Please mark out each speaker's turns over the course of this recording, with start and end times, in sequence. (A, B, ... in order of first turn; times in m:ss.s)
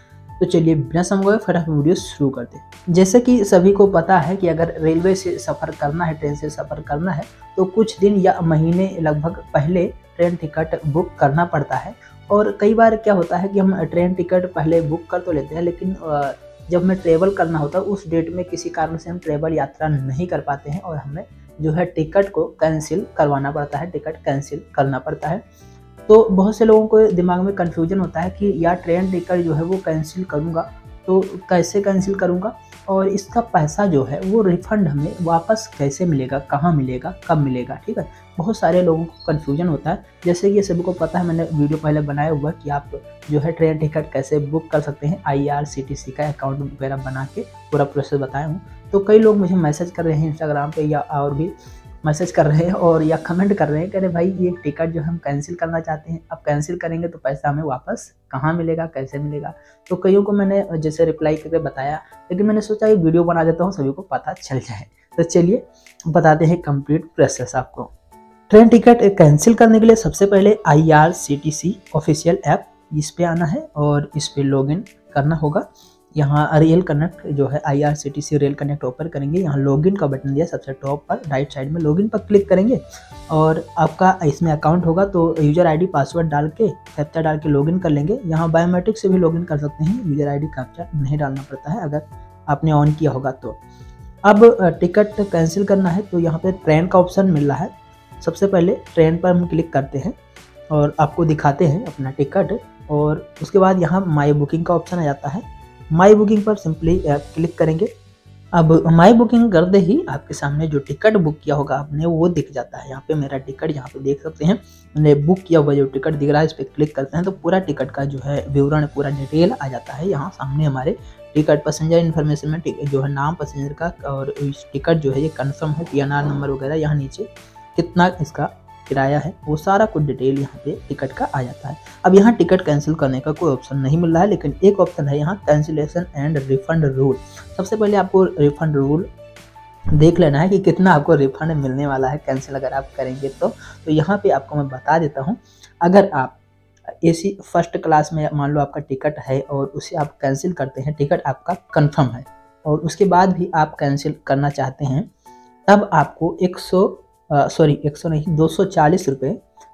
0:00.4-0:25.4 A
0:26.1-0:51.5 A
0:52.0-1:07.9 A
1:08.5-1:33.6 A
1:34.2-1:40.2 A
1:40.7-1:47.9 A
1:48.5-2:19.1 A
2:20.0-2:26.4 A
2:27.0-2:35.1 A
2:35.7-2:39.4 A